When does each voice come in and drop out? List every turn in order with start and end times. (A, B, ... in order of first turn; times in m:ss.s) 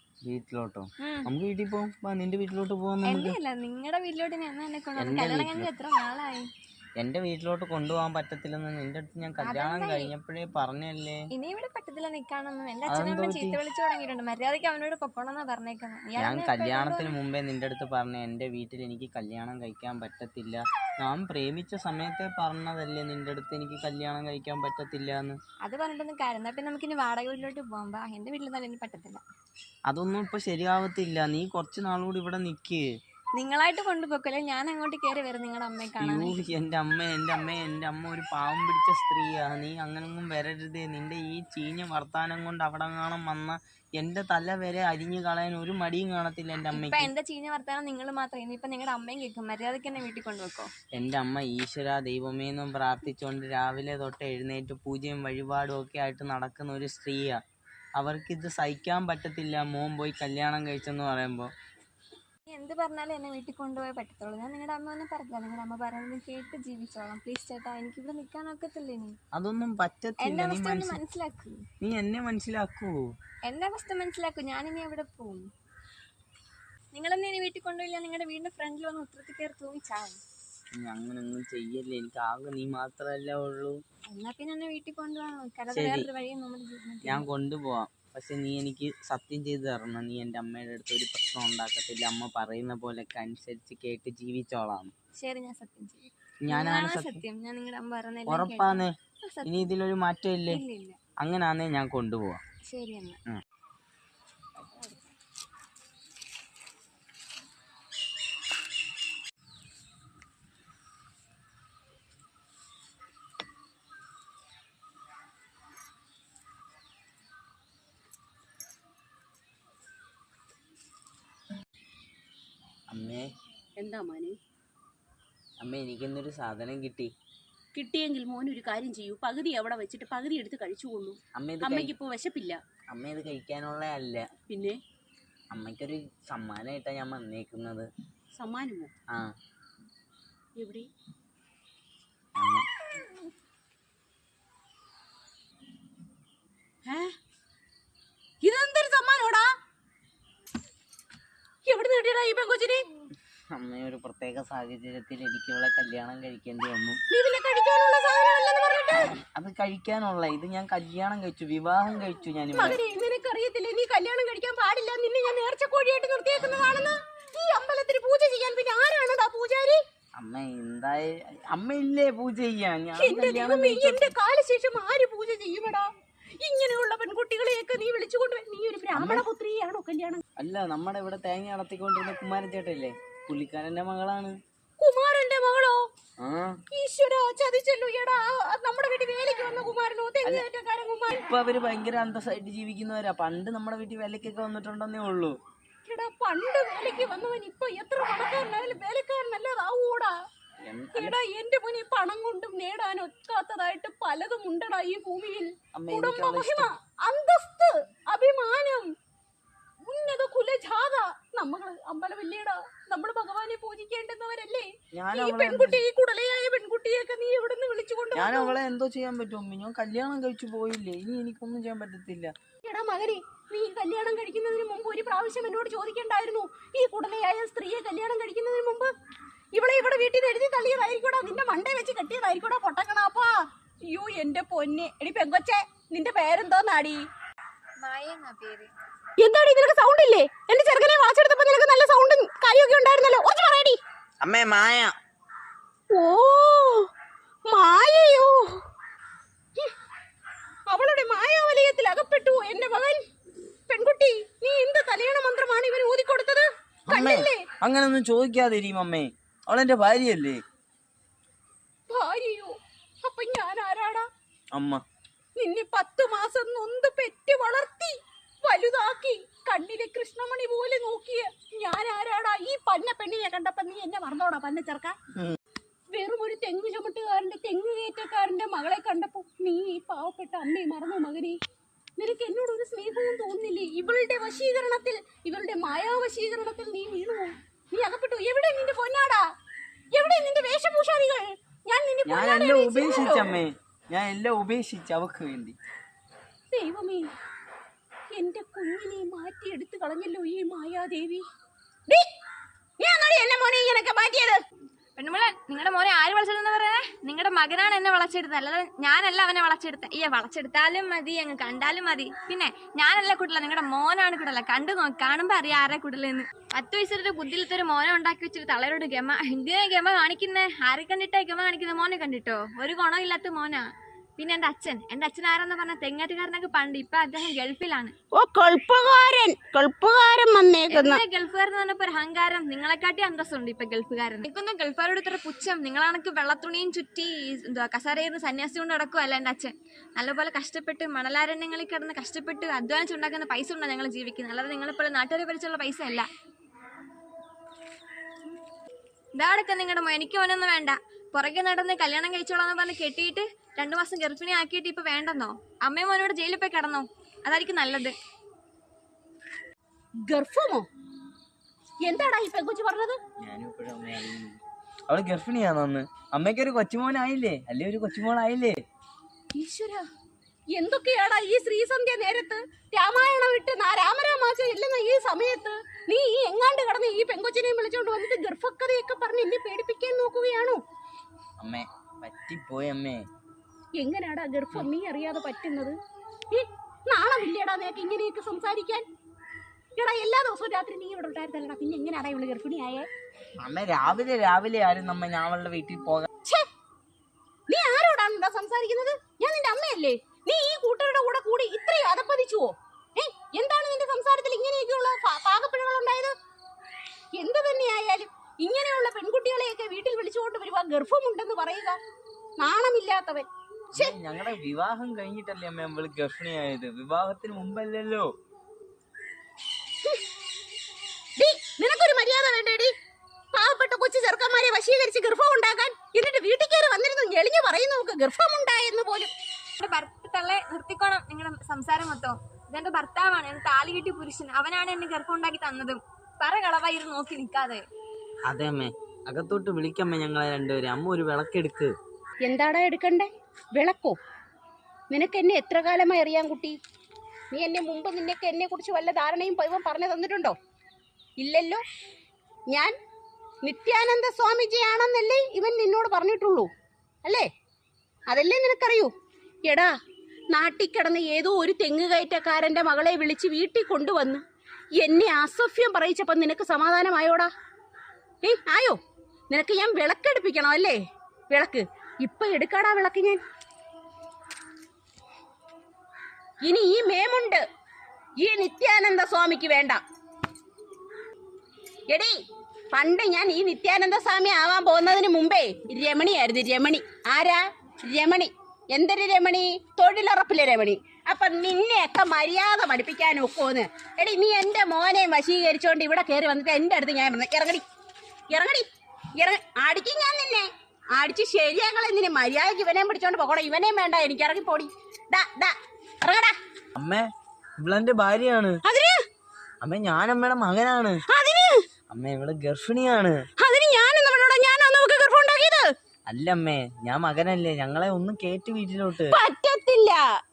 0:00.2-0:03.4 A
0:01.0-0:01.3 B
0:03.0-0:06.4 B
0:05.0-0:05.7 A
0:07.0-0:11.2 A
0:09.4-0:10.1 B
0:11.3-0:17.1 B
0:12.9-0:13.6 A
0:16.2-0:25.4 A
0:25.6-0:29.2 B
0:29.9-0:32.8 A
0:33.4-0:36.3 B
0:36.0-0:47.1 A
0:46.7-0:50.7 B
0:50.9-0:57.4 A
0:58.0-1:01.5 A
1:02.5-1:09.2 B
1:09.3-1:11.0 A
1:10.2-1:11.6 B
1:11.8-1:12.9 A
1:13.5-1:15.5 B
1:16.9-1:20.2 B
1:20.8-1:23.8 A
1:24.1-1:27.2 B
1:25.7-1:26.1 A
1:27.0-1:34.9 A
1:35.2-1:39.7 B
1:36.4-1:37.2 A
1:38.3-1:38.9 A
1:39.4-1:40.6 A
1:40.5-1:41.0 B
1:41.2-1:42.4 A
1:42.7-1:43.2 B
1:44.7-1:44.9 B
2:02.9-2:03.2 A
2:03.8-2:04.3 C
2:05.6-2:07.1 A
2:07.7-2:12.6 C
2:11.4-2:11.9 A
2:12.9-2:14.2 A
2:14.5-2:14.8 C
2:15.5-2:17.8 A
2:18.4-2:18.9 C
2:20.6-2:20.9 C
2:22.4-2:22.6 A
2:26.8-2:27.1 C
2:28.4-2:29.5 C
2:31.7-2:32.8 C
2:33.5-2:37.0 A
2:37.1-2:39.1 C
2:39.3-2:42.8 A
2:42.5-2:49.8 C
2:50.2-2:54.1 A
2:53.0-2:55.9 C
2:56.4-3:00.2 C
2:58.9-2:59.2 A
3:00.4-3:04.3 A
3:04.8-3:05.8 C
3:06.2-3:06.6 A
3:06.7-3:11.2 C
3:11.1-3:15.4 A
3:15.8-3:20.1 C
3:20.6-3:21.2 A
3:20.9-3:28.9 C
3:25.7-3:26.7 A
3:29.8-3:38.6 C
3:34.9-3:35.8 A
3:38.1-3:42.3 A
3:42.6-3:48.9 C
3:49.5-3:57.0 C
3:57.8-3:58.7 B
3:59.2-4:03.8 C
4:04.2-4:04.9 A
4:05.9-4:06.9 C
4:07.5-4:08.6 C
4:10.7-4:13.0 C
4:13.7-4:17.4 C
4:16.9-4:20.4 A
4:21.9-4:24.1 C
4:24.5-4:24.8 A
4:25.4-4:35.0 C
4:35.9-4:41.4 C
4:42.0-4:49.2 C
4:49.9-4:53.4 C
4:52.0-4:55.6 A
4:56.5-4:57.1 C
4:58.1-5:01.2 C
5:02.8-5:04.4 C
5:05.0-5:23.6 B
5:24.2-5:27.9 B
5:28.2-5:31.0 C
5:30.7-5:46.1 B
5:49.2-5:57.9 B
6:00.0-6:00.6 C
6:01.8-6:03.0 C
6:03.2-6:08.5 A
6:09.3-6:09.8 C
6:10.5-6:20.6 C
6:21.4-6:23.0 A
6:23.8-6:25.8 C
6:26.3-6:28.8 C
6:29.8-6:32.9 C
6:33.4-6:36.1 A
6:37.5-6:46.1 C
6:47.2-6:51.8 C
6:52.4-6:53.9 C
6:53.7-6:58.1 A
7:01.2-7:02.7 C
7:03.3-7:09.1 C
7:09.6-7:17.6 B
7:18.2-7:21.7 A
7:22.2-7:24.0 C
7:24.9-7:26.6 C
7:27.3-7:30.3 C
7:31.2-7:31.6 C
7:33.4-7:36.5 C
7:38.1-7:38.9 C
7:39.4-7:39.7 C
7:40.3-7:44.2 C
7:44.8-7:47.3 C
7:48.2-7:48.8 C
7:49.3-7:50.8 C
7:51.3-7:53.2 C
7:56.4-7:57.4 C
7:58.2-7:59.8 C
8:01.9-8:02.2 C
8:02.7-8:17.6 C
8:18.3-8:18.6 C
8:19.2-8:26.3 C
8:26.7-8:27.0 A
8:27.6-8:28.6 A
8:28.6-8:29.0 C
8:29.6-8:31.0 A
8:31.1-8:31.6 C
8:31.9-8:33.2 A
8:33.4-8:35.7 C
8:36.1-8:39.2 A
8:39.1-8:40.0 C